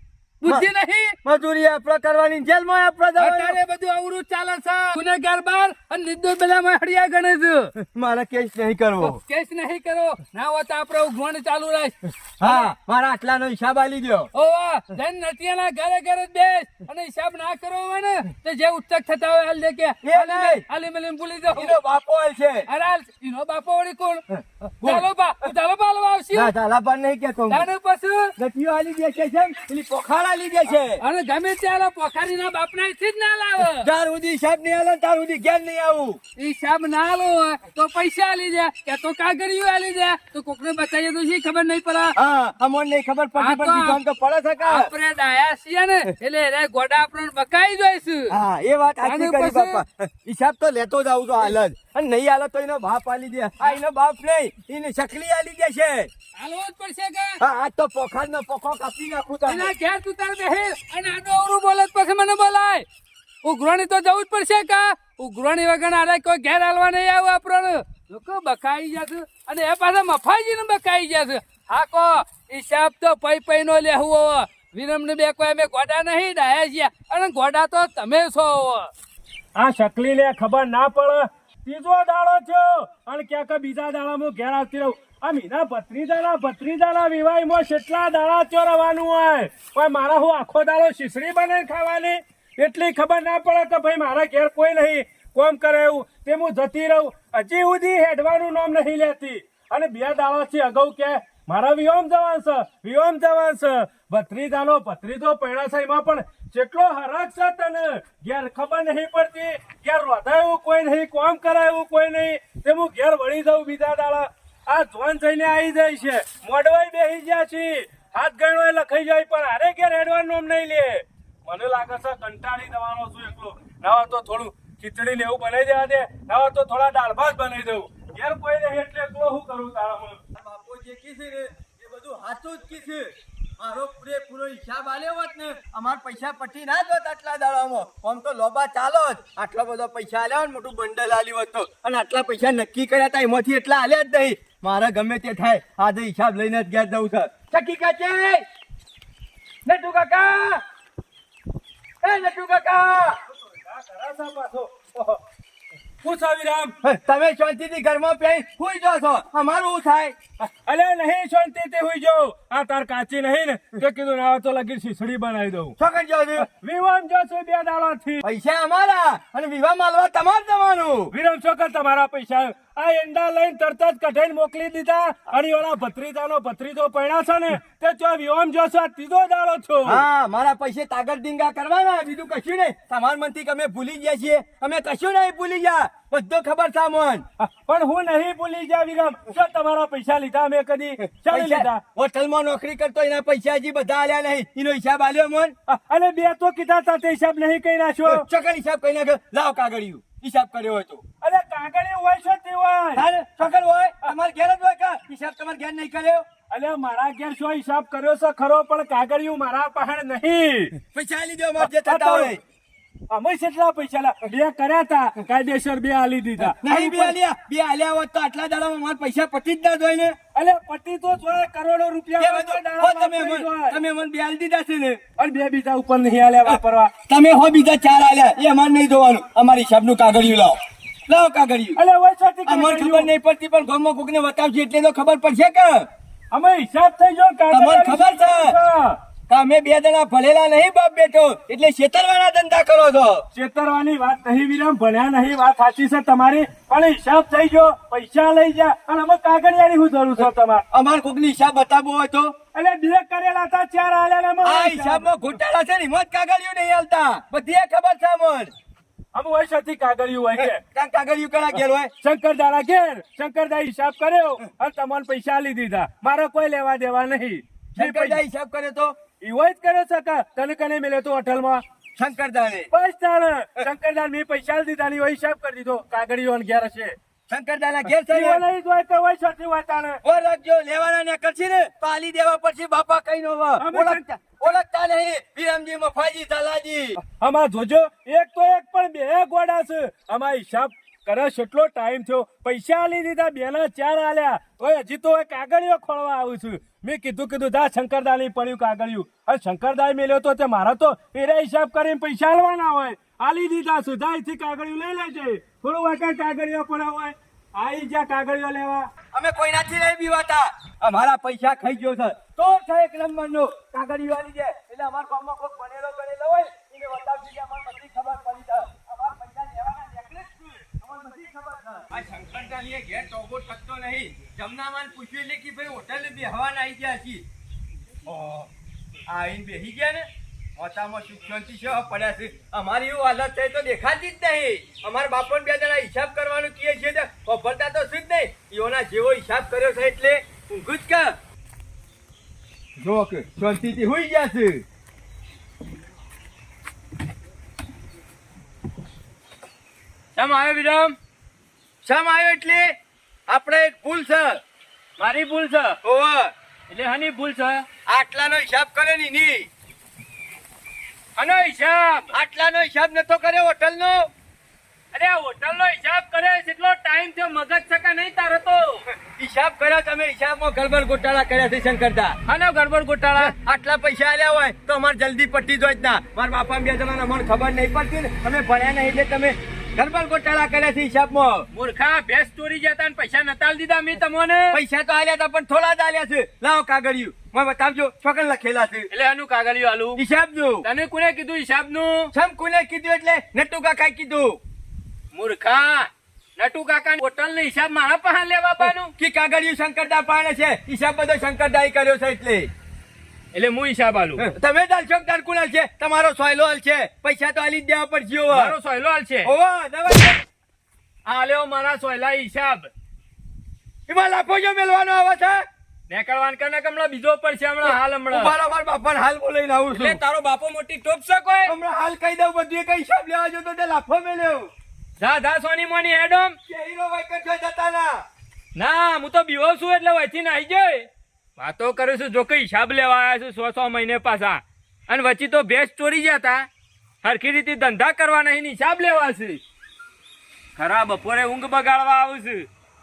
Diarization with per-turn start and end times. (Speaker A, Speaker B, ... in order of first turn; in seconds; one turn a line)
Speaker A: 0.4-1.1
Speaker B: 1.2-3.6
Speaker A: 3.2-7.7
Speaker B: 7.8-9.2
Speaker A: 9.0-12.7
Speaker B: 12.4-14.3
Speaker A: 14.3-21.8
Speaker B: 20.0-20.6
Speaker B: 21.5-22.6
Speaker A: 22.7-26.5
Speaker B: 24.3-25.1
Speaker B: 26.3-27.7
Speaker A: 27.5-28.3
Speaker B: 28.4-31.0
Speaker A: 31.0-33.9
Speaker B: 33.8-36.2
Speaker A: 36.4-42.1
Speaker B: 42.1-44.9
Speaker A: 43.4-44.0
Speaker A: 44.6-48.4
Speaker B: 48.3-56.1
Speaker A: 49.0-49.8
Speaker A: 56.4-57.4
Speaker B: 57.4-59.7
Speaker A: 59.5-62.9
Speaker A: 63.4-78.9
Speaker C: 79.5-130.2
Speaker B: 130.3-148.4
Speaker B: 149.7-150.6
Speaker B: 152.0-153.2
Speaker C: 153.3-155.2
Speaker C: 156.0-156.8
Speaker B: 156.8-160.2
Speaker C: 160.4-165.8
Speaker B: 165.8-166.5
Speaker C: 166.4-168.2
Speaker B: 168.2-171.1
Speaker C: 171.1-180.0
Speaker B: 179.8-187.2
Speaker C: 187.4-191.8
Speaker B: 191.0-195.6
Speaker C: 195.7-198.2
Speaker B: 198.0-201.0
Speaker C: 201.2-203.1
Speaker B: 202.9-206.3
Speaker C: 206.5-210.7
Speaker B: 210.8-212.4
Speaker C: 211.6-212.3
Speaker C: 213.1-217.1
Speaker B: 216.4-220.2
Speaker C: 220.3-223.8
Speaker B: 222.2-225.0
Speaker C: 225.2-226.9
Speaker B: 226.4-231.8
Speaker C: 231.8-233.1
Speaker B: 232.4-235.9
Speaker C: 236.3-239.0
Speaker B: 237.5-238.6
Speaker B: 239.3-243.2
Speaker C: 243.3-250.6
Speaker B: 250.2-252.3
Speaker C: 252.5-255.1
Speaker B: 254.4-258.5
Speaker C: 259.1-260.6
Speaker B: 260.4-261.9
Speaker C: 262.0-268.2
Speaker B: 267.7-269.0
Speaker C: 269.2-271.6
Speaker B: 271.9-272.7
Speaker C: 272.7-276.9
Speaker B: 277.3-278.5
Speaker C: 277.9-280.0
Speaker B: 280.0-287.0
Speaker C: 283.6-284.5
Speaker C: 287.1-308.9
Speaker B: 309.1-327.2
Speaker B: 328.1-328.5
Speaker B: 329.1-330.1
Speaker B: 330.6-341.1
Speaker B: 342.8-344.6
Speaker D: 350.1-350.9
Speaker B: 351.8-352.7
Speaker B: 353.3-354.4
Speaker D: 355.0-355.8
Speaker B: 355.8-356.3
Speaker D: 356.7-357.6
Speaker B: 357.9-359.5
Speaker D: 361.2-362.1
Speaker B: 362.1-364.1
Speaker D: 364.9-368.8
Speaker B: 369.1-372.2
Speaker D: 372.3-373.4
Speaker B: 373.2-381.5
Speaker D: 381.5-384.6
Speaker B: 384.5-388.9
Speaker D: 388.9-390.0
Speaker B: 389.9-390.7
Speaker D: 390.6-392.1
Speaker B: 392.1-394.4
Speaker D: 395.1-398.9
Speaker B: 398.6-402.5
Speaker D: 403.3-404.2
Speaker B: 404.2-408.6
Speaker D: 408.3-409.3
Speaker B: 409.2-410.2
Speaker D: 411.1-412.7
Speaker B: 413.9-415.4
Speaker D: 415.9-418.3
Speaker B: 417.6-420.0
Speaker D: 419.7-421.5
Speaker B: 421.4-424.5
Speaker D: 425.0-426.4
Speaker B: 426.5-428.0
Speaker D: 428.5-430.9
Speaker D: 431.4-436.5
Speaker D: 437.0-439.4
Speaker D: 440.6-442.5